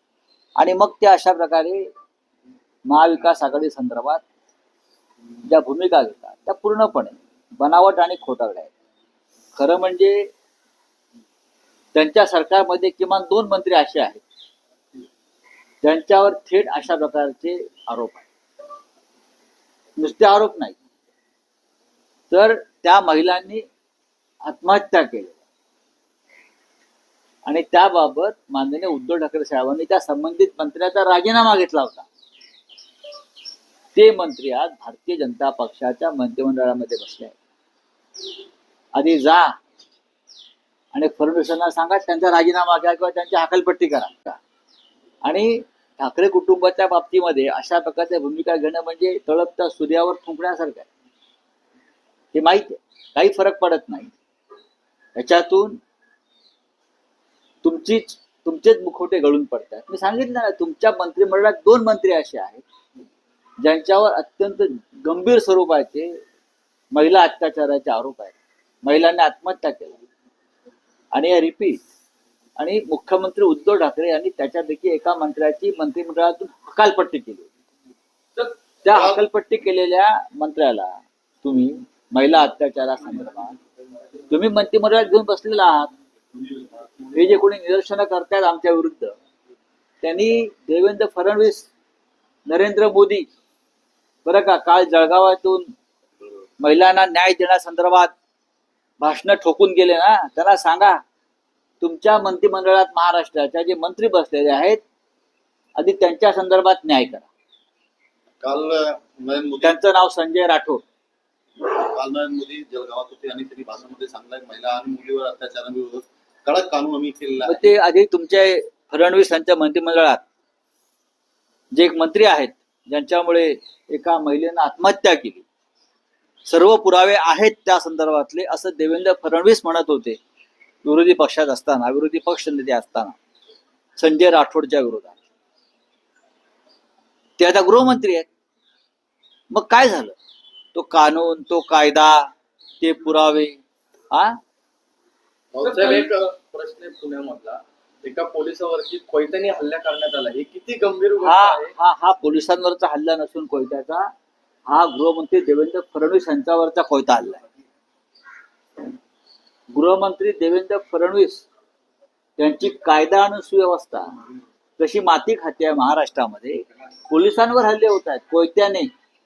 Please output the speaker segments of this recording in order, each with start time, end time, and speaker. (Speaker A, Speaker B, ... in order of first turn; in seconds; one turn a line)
Speaker A: 0.6-1.9
Speaker A: 2.8-4.2
Speaker A: 5.4-8.7
Speaker A: 9.5-10.3
Speaker A: 11.9-14.2
Speaker A: 15.8-18.3
Speaker A: 20.0-20.8
Speaker A: 22.3-23.6
Speaker A: 24.4-25.4
Speaker A: 27.4-32.1
Speaker A: 33.9-37.3
Speaker A: 38.9-39.6
Speaker A: 40.9-44.4
Speaker A: 45.2-50.9
Speaker A: 52.3-54.1
Speaker A: 55.1-55.8
Speaker A: 57.6-62.6
Speaker A: 63.6-66.2
Speaker A: 66.9-70.0
Speaker A: 71.1-71.8
Speaker A: 72.5-77.5
Speaker A: 78.4-83.6
Speaker A: 84.3-85.9
Speaker A: 87.1-89.2
Speaker A: 90.0-91.7
Speaker A: 92.5-93.3
Speaker A: 94.2-95.7
Speaker A: 96.6-98.1
Speaker A: 99.0-101.0
Speaker A: 101.8-104.8
Speaker A: 105.8-107.3
Speaker B: 108.4-109.8
Speaker A: 109.6-110.8
Speaker B: 111.6-117.6
Speaker A: 117.4-120.2
Speaker A: 121.7-125.5
Speaker A: 126.4-130.2
Speaker A: 130.8-133.2
Speaker A: 134.0-135.2
Speaker A: 137.4-138.3
Speaker A: 139.5-140.2
Speaker A: 140.7-144.4
Speaker C: 145.6-146.5
Speaker C: 147.1-151.7
Speaker A: 151.2-154.1
Speaker A: 154.7-157.4
Speaker A: 159.7-161.4
Speaker A: 162.4-164.2
Speaker A: 164.8-168.9